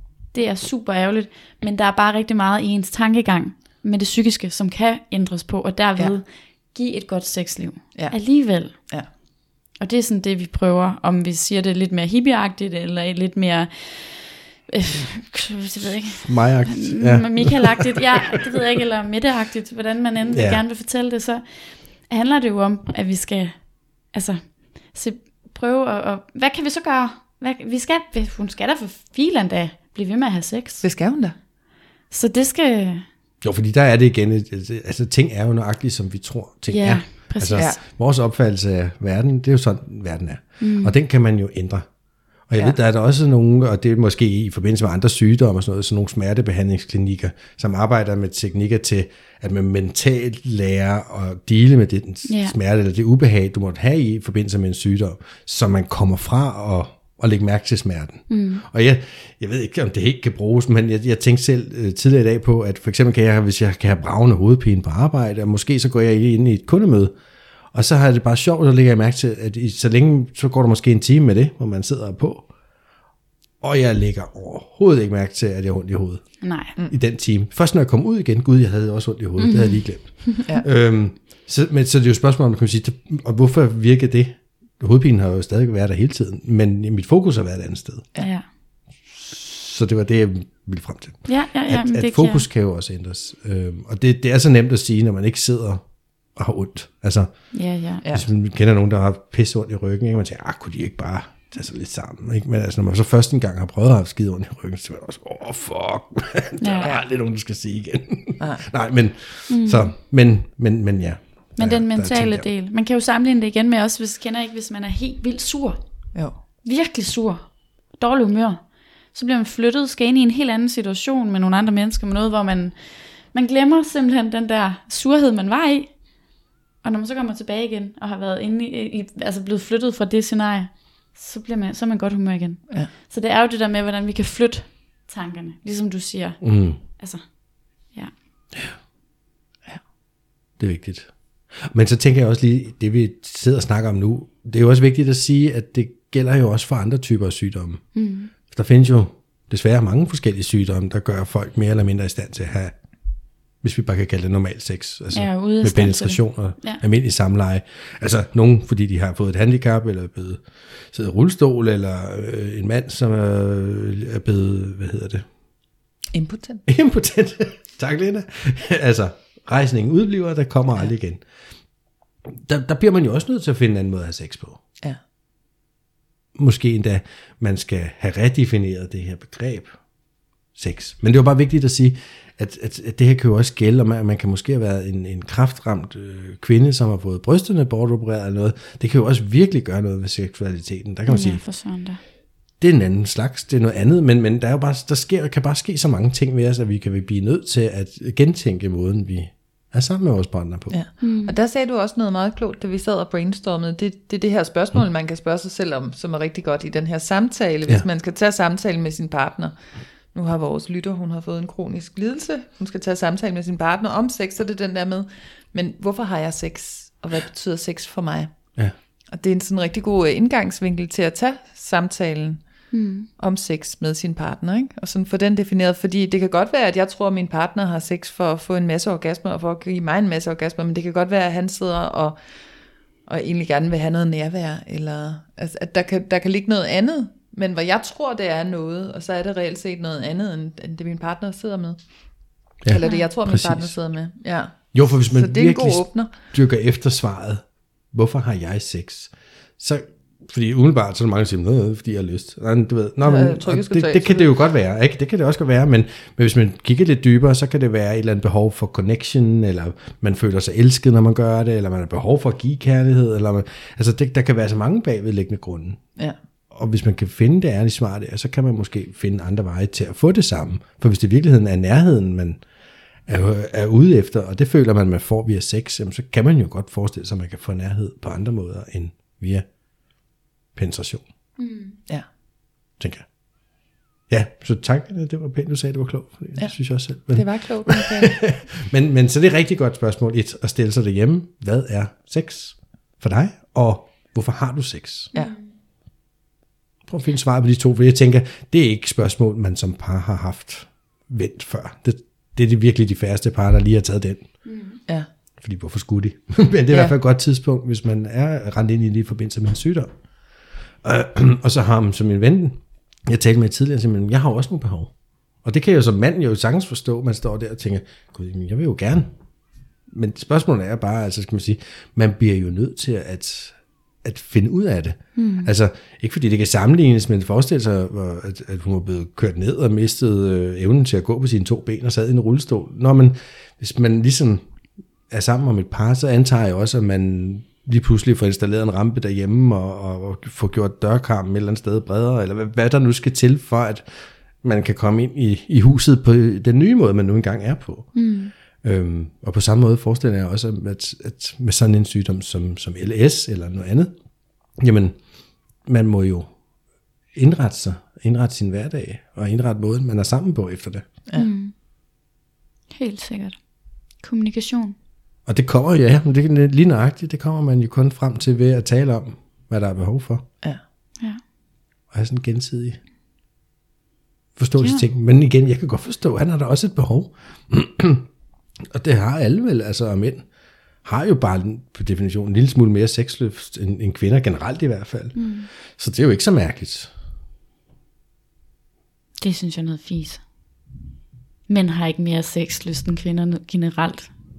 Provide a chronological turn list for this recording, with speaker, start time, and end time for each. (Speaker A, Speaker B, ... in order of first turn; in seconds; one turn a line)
Speaker A: 0.3-8.8
Speaker B: 8.7-9.1
Speaker A: 9.8-21.4
Speaker C: 16.0-18.6
Speaker C: 20.3-20.6
Speaker A: 22.1-30.8
Speaker B: 30.8-31.4
Speaker A: 32.1-33.1
Speaker C: 33.4-41.9
Speaker A: 36.7-37.8
Speaker A: 40.6-41.0
Speaker C: 42.5-67.1
Speaker A: 52.3-52.5
Speaker A: 58.3-58.6
Speaker C: 67.7-72.5
Speaker C: 73.6-88.1
Speaker A: 76.4-76.7
Speaker A: 79.4-80.5
Speaker A: 88.2-88.5
Speaker C: 89.1-95.8
Speaker A: 91.3-92.5
Speaker C: 96.4-97.3
Speaker A: 97.5-98.0
Speaker B: 98.0-98.3
Speaker C: 98.1-112.5
Speaker A: 106.6-106.9
Speaker B: 108.4-108.7
Speaker A: 109.5-109.9
Speaker A: 111.6-115.8
Speaker A: 116.6-122.8
Speaker A: 123.3-126.0
Speaker A: 126.8-137.3
Speaker C: 136.4-136.8
Speaker C: 140.6-147.8
Speaker A: 147.9-148.3
Speaker C: 148.5-152.8
Speaker C: 153.6-165.2
Speaker A: 155.1-156.8
Speaker B: 166.1-166.6
Speaker C: 166.7-171.2
Speaker C: 172.3-174.6
Speaker C: 176.4-179.7
Speaker C: 180.6-191.4
Speaker A: 191.1-192.0
Speaker C: 192.6-200.8
Speaker B: 200.7-209.6
Speaker A: 201.0-201.4
Speaker B: 210.1-218.3
Speaker B: 219.1-222.4
Speaker A: 222.7-223.1
Speaker B: 223.2-232.2
Speaker B: 233.1-241.8
Speaker C: 242.6-243.8
Speaker B: 242.7-246.1
Speaker A: 242.8-243.1
Speaker C: 244.7-265.8
Speaker B: 253.0-254.3
Speaker C: 266.5-272.4
Speaker C: 273.1-279.5
Speaker C: 280.6-281.1
Speaker A: 281.4-281.8
Speaker C: 282.8-283.1
Speaker C: 284.1-295.1
Speaker B: 287.1-288.2
Speaker A: 295.1-295.5
Speaker C: 296.9-304.3
Speaker A: 304.4-304.8
Speaker C: 305.4-309.9
Speaker C: 310.8-314.9
Speaker C: 315.4-319.1
Speaker C: 319.9-334.4
Speaker A: 325.2-325.5
Speaker C: 335.1-343.9
Speaker C: 344.4-347.9
Speaker A: 347.9-348.3
Speaker C: 348.6-353.9
Speaker C: 354.6-355.0
Speaker C: 355.7-356.3
Speaker C: 357.1-360.9
Speaker A: 361.1-361.5
Speaker A: 362.7-363.4
Speaker A: 364.0-364.8
Speaker C: 365.3-370.3
Speaker C: 371.9-372.8
Speaker C: 374.4-378.1
Speaker A: 374.6-374.8
Speaker C: 378.7-380.3
Speaker C: 380.9-385.2
Speaker A: 385.2-385.5
Speaker C: 385.8-386.9
Speaker A: 389.2-390.2
Speaker A: 391.5-394.1